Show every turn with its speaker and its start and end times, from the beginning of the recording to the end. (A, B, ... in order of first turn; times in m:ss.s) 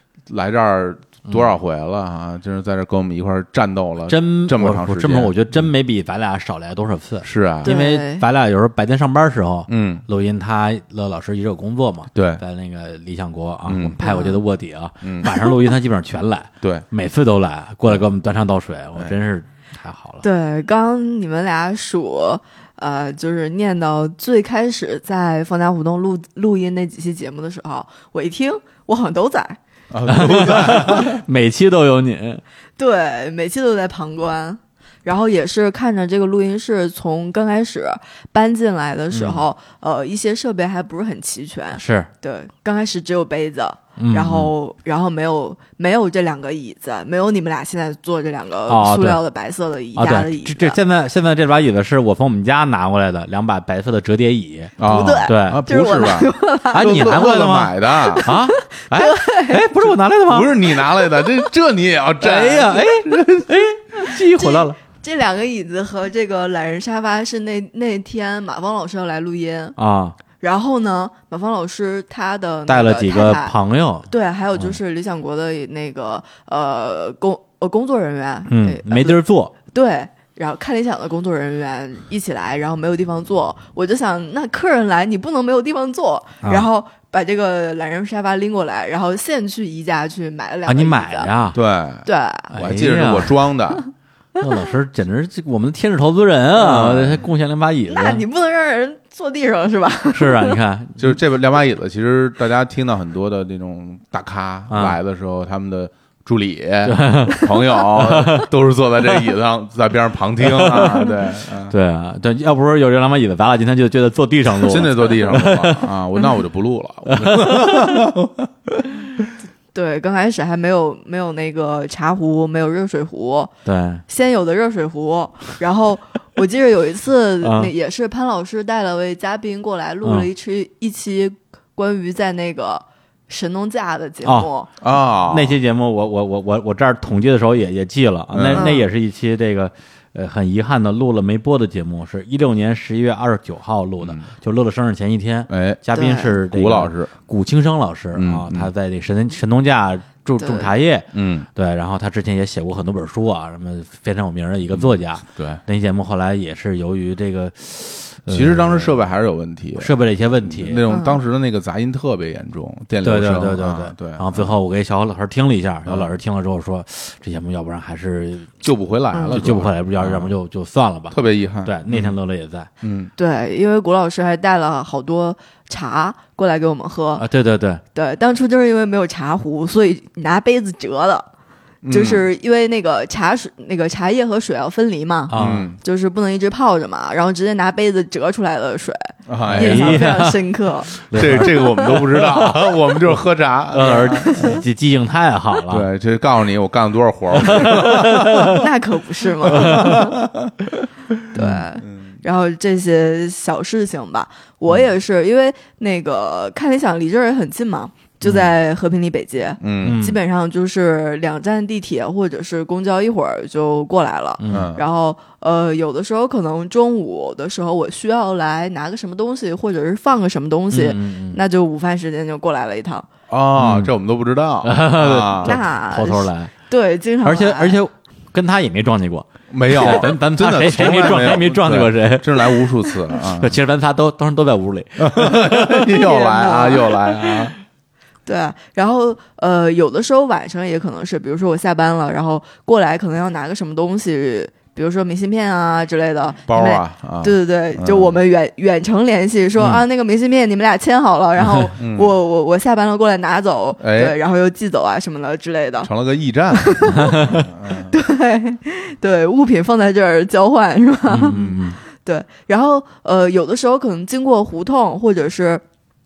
0:00.3-0:05.7 A
0:04.1-0:20.2 B
0:07.2-0:07.7 A
0:07.6-0:08.3 C
0:09.7-0:10.0 A
0:12.1-0:12.4 A
0:13.6-0:14.0 A
0:14.0-0:14.4 C
0:15.0-0:15.3 A
0:20.2-0:29.6 C
0:29.9-0:31.2 A
0:30.1-0:32.4 B
0:32.8-0:50.8 C
0:39.1-0:39.4 B
0:41.7-0:42.1 B
0:44.0-0:44.5 B
0:48.7-0:49.2 B
0:49.9-0:55.6 B
0:54.8-0:58.3 A
0:54.8-0:57.3 C
0:56.7-1:00.6 B
0:58.0-0:59.7 C
1:00.3-1:03.2 A
1:00.7-1:01.4 C
1:02.2-1:04.8 B
1:04.3-1:09.8 C
1:09.8-1:10.2 B
1:10.4-1:13.6 C
1:12.7-1:14.8 B
1:14.1-1:31.3 C
1:18.5-1:19.5 B
1:30.6-1:31.6 B
1:31.5-1:33.8 A
1:32.0-1:32.5 C
1:32.5-1:33.4 B
1:34.4-1:38.2 B
1:36.6-1:37.2 A
1:37.9-1:40.6 C
1:40.1-1:41.2 B
1:41.0-1:51.7 A
1:44.7-1:45.0 B
1:46.8-1:48.5 B
1:50.4-1:51.1 B
1:51.7-1:55.8 B
1:54.5-1:58.7 A
1:57.1-1:58.1 B
1:59.7-2:03.5 C
2:03.6-2:04.0 B
2:04.1-2:14.7 C
2:07.4-2:07.7 B
2:10.0-2:10.3 B
2:14.2-2:14.5 B
2:14.8-2:15.6 A
2:15.2-2:39.1 B
2:18.3-2:18.7 A
2:18.5-2:18.8 C
2:24.0-2:24.3 A
2:25.5-2:25.8 A
2:25.9-2:26.3 C
2:26.4-2:27.1 A
2:28.1-2:28.7 A
2:30.4-2:30.7 C
2:31.1-2:31.5 A
2:34.7-2:35.6 A
2:38.3-2:44.5 A
2:39.8-2:40.8 B
2:40.9-2:41.2 C
2:43.0-2:48.5 B
2:45.8-2:46.1 A
2:48.6-2:50.3 A
2:49.1-2:49.4 C
2:49.3-2:52.7 B
2:51.1-2:52.2 A
2:52.8-2:53.1 A
2:53.2-2:57.2 C
2:57.2-2:57.8 B
2:57.9-3:01.3 C
3:01.8-3:02.2 A
3:01.9-3:11.7 C
3:05.3-3:05.7 B
3:05.3-3:05.8 A
3:09.3-3:10.1 A
3:09.5-3:10.4 B
3:11.0-3:12.7 B
3:11.1-3:14.6 A
3:13.7-3:15.9 B
3:14.3-3:14.6 C
3:15.7-3:18.6 A
3:17.4-3:18.6 B
3:18.4-3:20.2 C
3:19.4-3:20.8 A
3:19.5-3:20.0 B
3:21.3-3:43.1 C
3:21.3-3:21.6 B
3:21.8-3:22.2 A
3:28.2-3:28.5 A
3:29.6-3:30.0 A
3:29.8-3:30.2 B
3:34.4-3:34.7 B
3:34.5-3:34.8 A
3:40.7-3:41.4 B
3:43.3-3:45.6 A
3:43.6-3:43.9 B
3:44.6-3:46.5 B
3:45.4-3:47.8 C
3:47.2-3:55.8 B
3:49.5-3:53.6 A
3:55.0-3:57.6 A
3:55.9-3:57.0 C
3:58.3-4:15.9 C
4:06.5-4:08.2 A
4:09.6-4:09.8 B
4:11.8-4:12.1 A
4:13.8-4:14.2 A
4:15.8-4:18.0 A
4:16.5-4:21.4 C
4:17.0-4:17.4 B
4:21.1-4:21.8 B
4:21.3-4:21.6 A
4:21.9-4:25.6 C